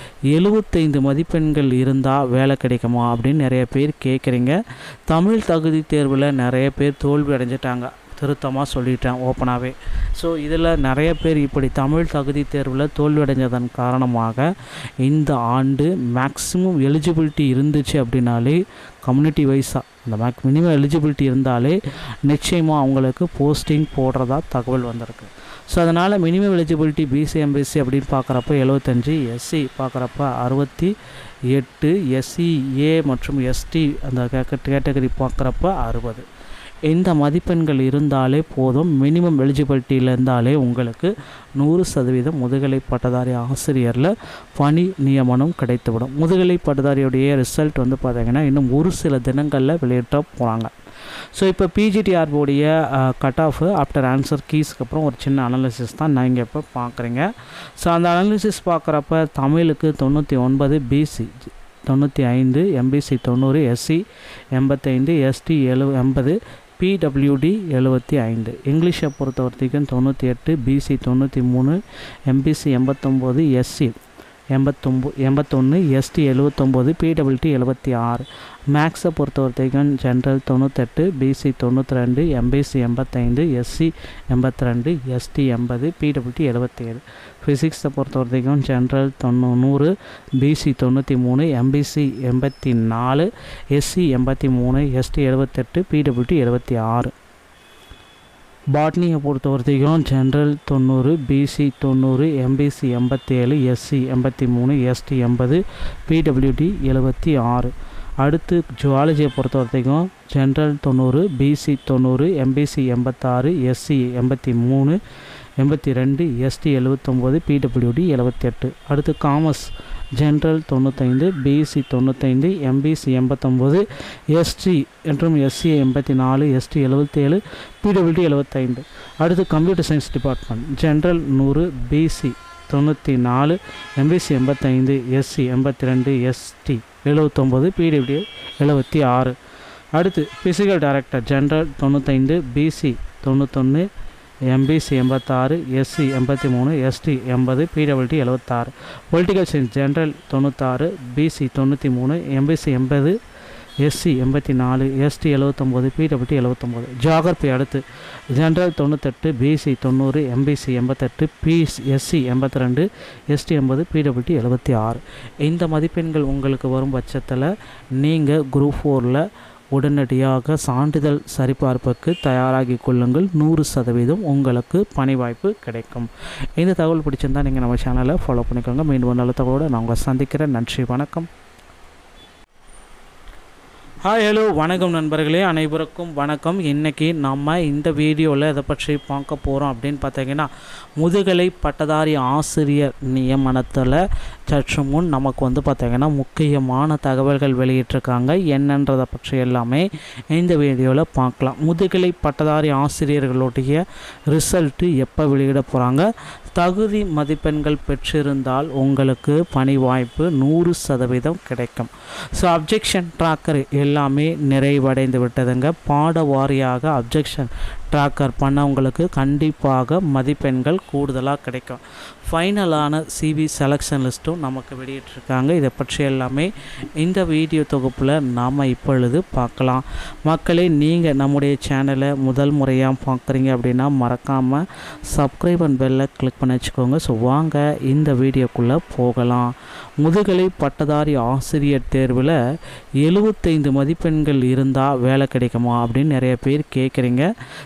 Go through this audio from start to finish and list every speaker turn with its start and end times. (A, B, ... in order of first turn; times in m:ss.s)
0:00.3-0:04.6 A
0:05.1-0:14.5 A
0:15.0-0:30.9 A
0:31.5-0:36.2 A
0:36.9-0:50.7 A
0:51.3-1:04.0 A
1:04.5-1:11.8 A
1:12.3-1:14.0 A
1:14.5-1:37.1 A
1:38.7-1:55.0 A
1:55.6-2:19.4 A
2:20.0-2:23.9 A
2:24.5-2:33.2 A
2:33.8-3:01.3 A
3:04.0-4:02.4 A
4:03.0-4:07.3 A